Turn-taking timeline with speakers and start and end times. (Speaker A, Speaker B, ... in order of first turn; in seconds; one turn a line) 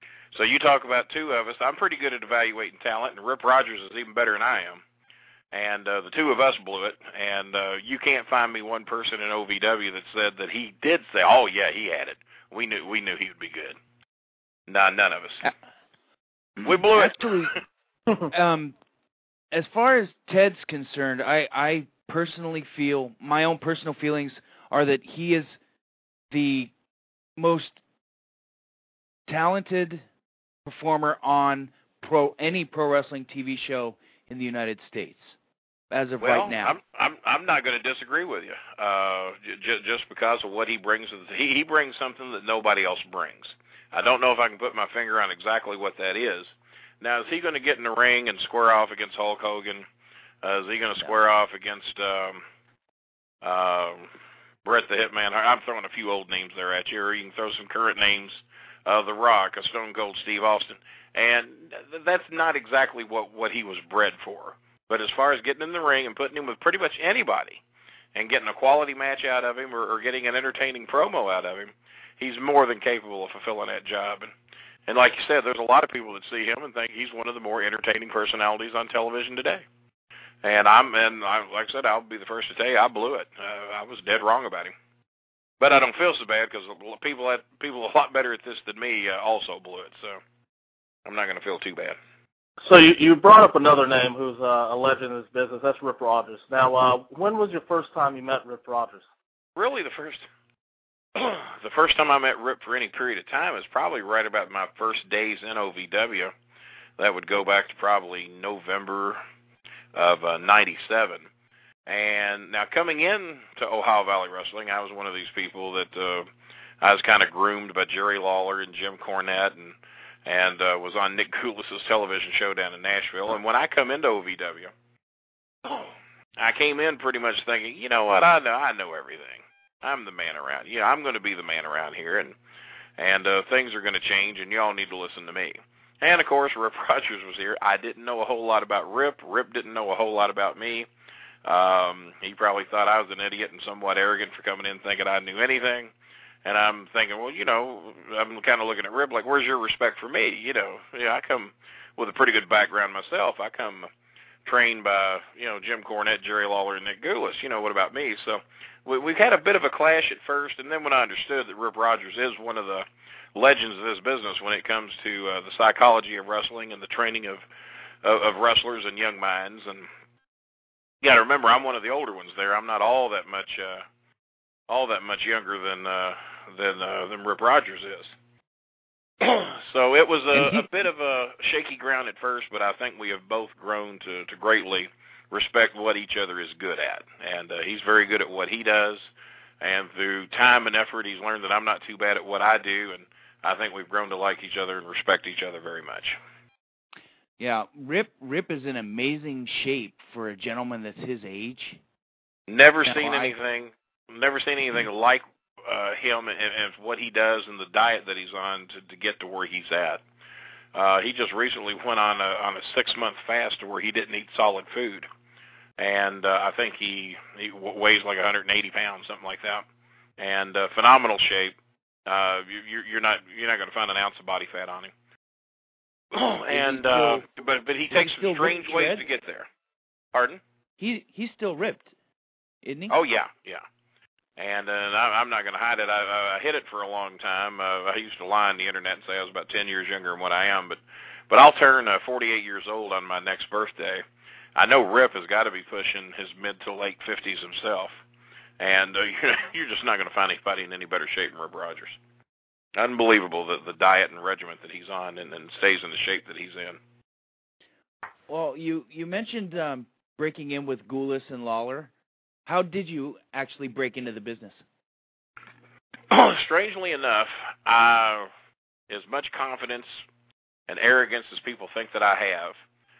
Speaker A: 0.3-4.8
Speaker A: 5.5-13.8
Speaker A: 14.7-15.5
Speaker A: 16.6-17.6
Speaker B: 16.6-17.6
Speaker B: 18.2-18.8
Speaker B: 19.5-25.6
Speaker B: 26.3-26.7
Speaker B: 27.4-27.8
Speaker B: 29.3-30.0
Speaker B: 30.6-35.4
Speaker B: 35.9-36.8
Speaker A: 36.2-49.9
Speaker A: 50.4-52.4
Speaker A: 53.4-54.1
Speaker A: 54.6-67.6
Speaker A: 68.2-74.3
Speaker A: 74.9-79.7
Speaker A: 80.4-84.7
Speaker A: 85.6-90.2
Speaker A: 91.0-92.0
Speaker C: 92.6-99.0
Speaker A: 99.6-100.3
Speaker A: 101.2-106.3
Speaker A: 107.0-109.2
Speaker A: 109.9-111.3
Speaker A: 111.9-116.3
Speaker A: 116.8-124.7
Speaker A: 125.6-132.3
Speaker A: 133.0-140.9
Speaker A: 141.4-145.9
Speaker A: 146.4-153.9
Speaker A: 154.4-167.4
Speaker A: 168.0-169.9
Speaker A: 171.0-173.8
Speaker A: 174.7-178.2
Speaker A: 179.2-189.1
Speaker B: 180.3-180.7
Speaker A: 189.6-196.2
Speaker B: 197.4-201.8
Speaker A: 202.5-210.0
Speaker B: 202.9-203.3
Speaker A: 210.7-215.1
Speaker A: 215.8-219.7
Speaker A: 220.2-224.9
Speaker A: 226.1-229.5
Speaker B: 226.5-227.2
Speaker B: 227.9-229.0
Speaker A: 230.1-230.4
Speaker B: 230.8-231.9
Speaker B: 232.6-232.9
Speaker A: 232.9-233.6
Speaker A: 234.4-244.0
Speaker A: 244.6-248.0
Speaker A: 248.6-252.0
Speaker A: 252.8-256.8
Speaker B: 258.3-261.9
Speaker B: 262.5-264.6
Speaker A: 266.1-268.3
Speaker A: 268.9-270.0
Speaker A: 270.7-272.6